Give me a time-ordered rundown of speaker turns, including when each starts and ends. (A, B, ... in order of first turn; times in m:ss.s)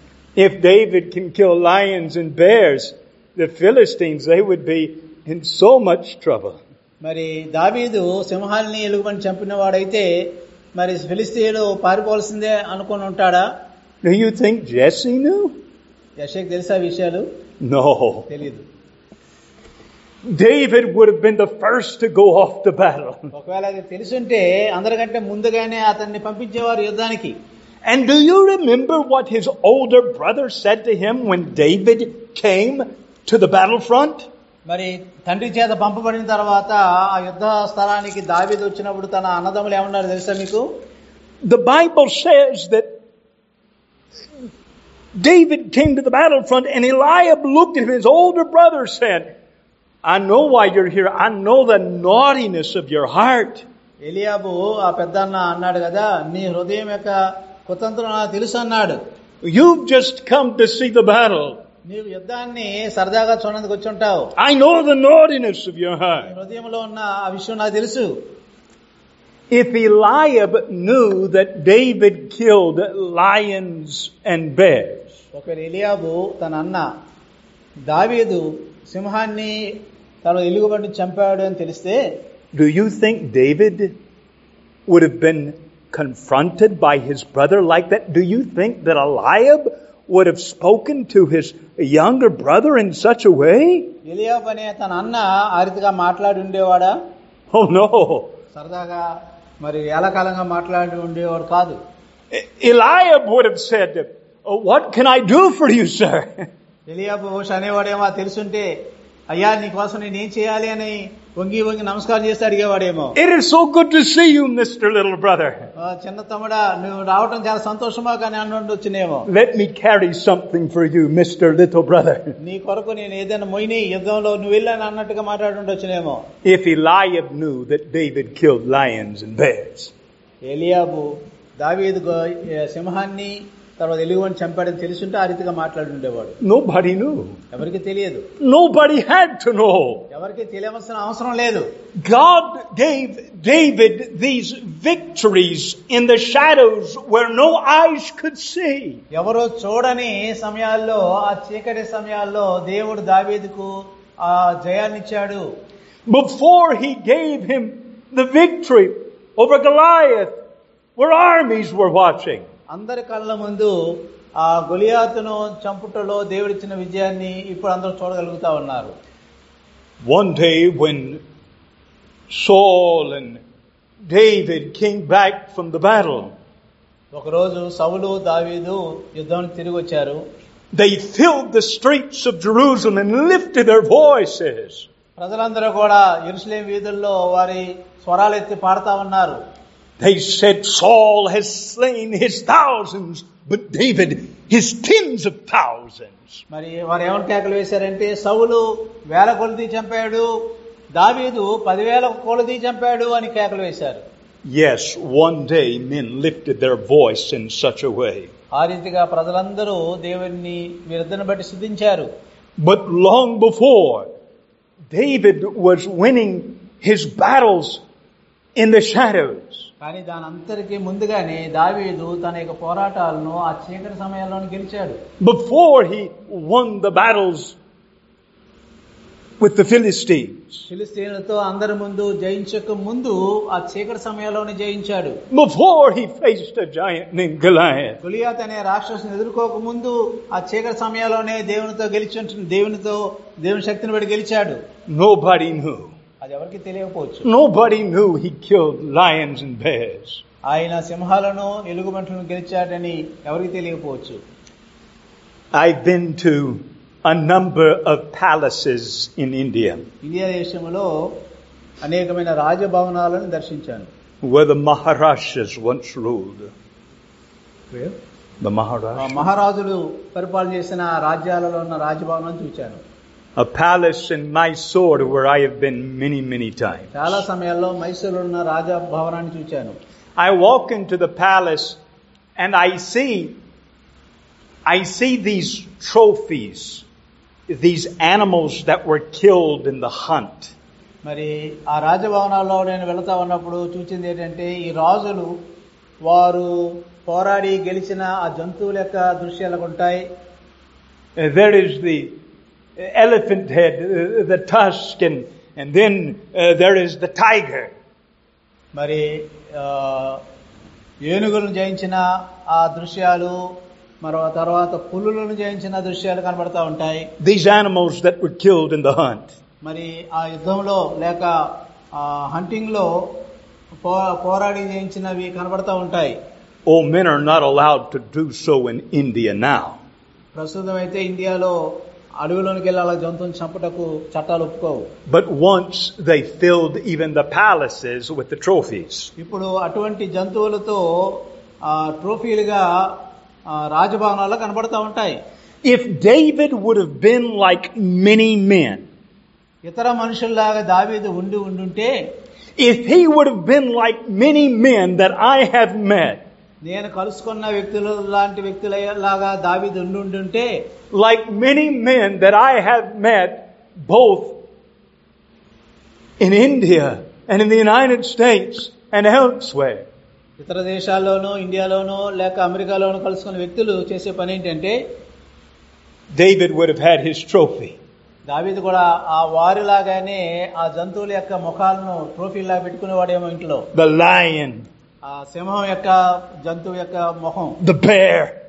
0:00.4-0:06.6 A
0:07.0-0:10.1 B
0:10.8-0:13.4 B
0:14.0-0:15.6 A
0:16.2-0:17.3 B
0:17.6-0:18.3 A
0:18.3-0:18.7 B
0:20.2-0:23.3 A
0:23.3-0:27.4 B
0:27.8-0:34.3 A
0:34.7-0:40.6 B
0:41.4-0:42.9 A
0:45.2-0:49.3 A
0:50.0-0:53.6 A
0:54.0-0:59.0 B
0:59.4-1:01.6 A
1:01.9-1:04.3 B
1:04.4-1:06.3 A
1:06.2-1:08.1 B
1:09.5-1:15.1 A
1:15.3-1:16.9 B
1:17.9-1:22.2 B
1:22.5-1:24.0 A
1:24.9-1:33.9 A
1:34.0-1:36.9 B
1:37.5-1:38.4 A
1:38.5-1:39.0 B
1:39.6-1:41.8 B
1:42.3-1:46.5 A
1:46.9-1:48.7 B
1:49.3-1:53.2 B
1:53.2-1:55.7 A
1:55.8-1:59.3 B
1:59.3-2:02.4 A
2:02.4-2:06.2 B
2:06.4-2:09.9 A
2:10.4-2:11.1 B
2:11.6-2:16.4 B
2:16.4-2:17.4 A
2:17.5-2:18.3 B
2:18.4-2:20.1 A
2:20.1-2:21.7 B
2:22.0-2:29.0 A
2:29.1-2:35.4 B
2:36.1-2:40.4 A
2:41.0-2:42.5 A
2:42.7-2:43.7 B
2:44.4-2:49.0 B
2:50.0-2:51.2 A
2:52.3-2:53.4 A
2:54.1-2:56.3 A
2:57.1-3:00.2 B
3:00.7-3:04.9 A
3:05.2-3:09.4 B
3:10.0-3:16.4 A
3:16.5-3:20.3 B
3:21.0-3:24.0 B
3:24.4-3:28.3 A
3:28.5-3:32.1 B
3:32.6-3:34.1 A
3:34.9-3:37.8 A
3:38.6-3:39.7 A
3:39.8-3:45.0 B
3:45.2-3:47.6 A
3:49.4-3:50.6 A
3:50.7-3:55.2 B
3:55.3-3:58.0 A
3:58.0-4:04.6 B
4:04.9-4:05.9 A
4:06.2-4:07.3 B
4:07.2-4:10.2 A
4:10.5-4:14.2 B
4:15.5-4:19.9 A
4:20.0-4:20.9 B
4:21.8-4:23.9 B
4:24.2-4:26.5 A
4:27.7-4:28.0 B
4:28.4-4:29.2 A
4:29.0-4:32.8 B
4:33.4-4:37.2 A
4:36.9-4:39.8 B
4:40.2-4:41.8 A
4:42.4-4:43.4 A
4:44.6-4:46.8 A
4:47.5-4:50.5 A
4:51.0-4:55.3 B
4:56.1-5:00.0 B
5:01.2-5:02.1 A
5:02.8-5:07.7 A
5:08.8-5:10.2 B
5:11.0-5:13.4 B
5:14.0-5:17.1 B
5:17.2-5:19.3 A
5:19.6-5:21.3 B
5:21.9-5:22.9 B
5:23.8-5:26.2 B
5:26.6-5:29.8 A
5:30.4-5:31.6 B
5:32.2-5:34.9 B
5:35.1-5:39.1 A
5:39.2-5:45.2 B
5:45.6-5:48.9 A
5:49.6-5:51.9 B
5:52.6-5:56.2 A
5:56.6-6:00.6 B
6:00.9-6:04.4 A
6:06.2-6:09.9 A
6:10.4-6:14.8 B
6:16.1-6:17.8 A
6:18.3-6:23.7 B
6:23.7-6:24.7 A
6:25.0-6:27.6 B
6:27.6-6:28.4 A